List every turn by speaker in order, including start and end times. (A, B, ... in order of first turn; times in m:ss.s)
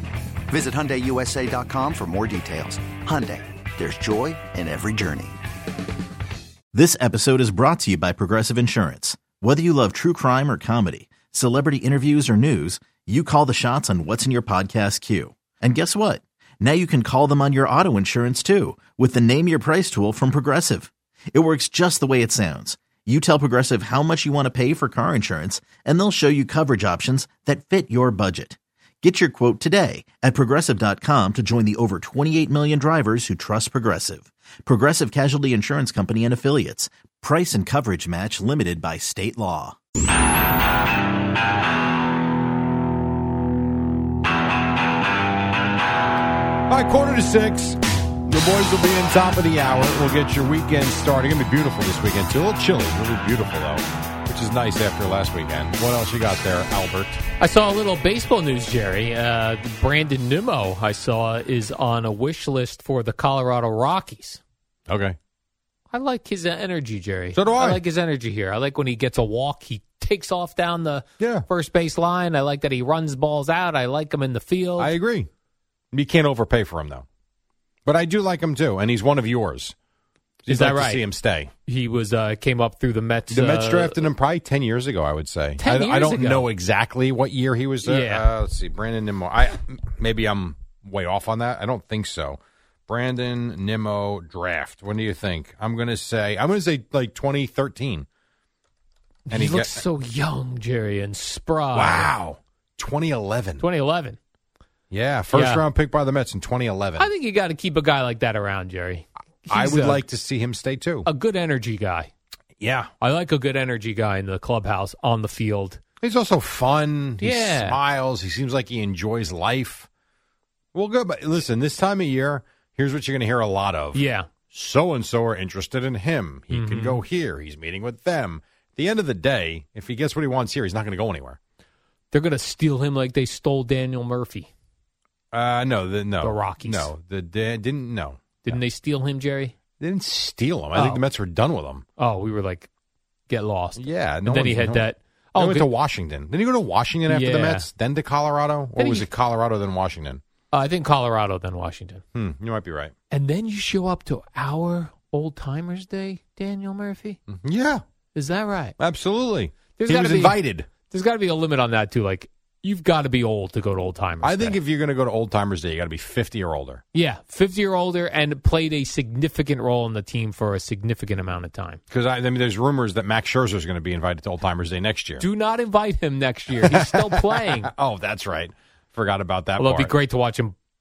0:00.5-0:05.4 A
0:06.7-0:39.8 B
0:46.7-0:57.2 C
0:57.4-1:04.4 D
1:04.9-1:05.2 C
1:05.9-1:14.9 D
1:07.3-1:07.8 C
1:11.2-1:11.5 C
1:14.8-1:15.3 C
1:15.9-1:17.0 C
1:17.8-1:19.7 C
1:20.4-1:21.5 C
1:20.5-1:21.0 D
1:21.6-1:24.0 D
1:23.3-1:38.0 C
1:25.6-1:26.5 D
1:27.8-1:28.3 D
1:39.3-1:42.1 D
1:39.3-1:39.8 C
1:41.7-1:43.6 C
1:43.6-1:44.2 D
1:44.9-1:47.1 C
1:45.3-1:45.6 D
1:47.0-1:50.0 D
1:49.5-1:51.1 C
1:51.0-1:52.1 D
1:52.6-1:52.9 C
1:53.0-1:55.8 D
1:56.0-1:59.9 C
1:57.2-1:57.8 D
2:00.7-2:11.4 C
2:03.9-2:04.3 D
2:06.5-2:07.0 D
2:12.1-2:14.5 D
2:15.3-2:18.6 C
2:16.2-2:16.9 D
2:18.4-2:19.5 D
2:19.8-2:21.8 C
2:20.7-2:21.0 D
2:22.0-2:22.7 D
2:23.3-2:25.7 D
2:23.8-2:30.2 C
2:27.0-2:27.7 D
2:28.8-2:29.1 D
2:30.5-2:32.0 D
2:32.1-2:32.9 C
2:33.1-2:37.2 D
2:37.3-2:37.8 C
2:38.1-2:38.8 D
2:38.8-2:40.7 C
2:39.8-2:44.6 D
2:44.2-2:46.8 C
2:46.9-2:51.8 D
2:51.9-2:55.2 C
2:55.2-2:57.7 D
2:56.6-3:00.0 C
2:59.6-3:00.5 D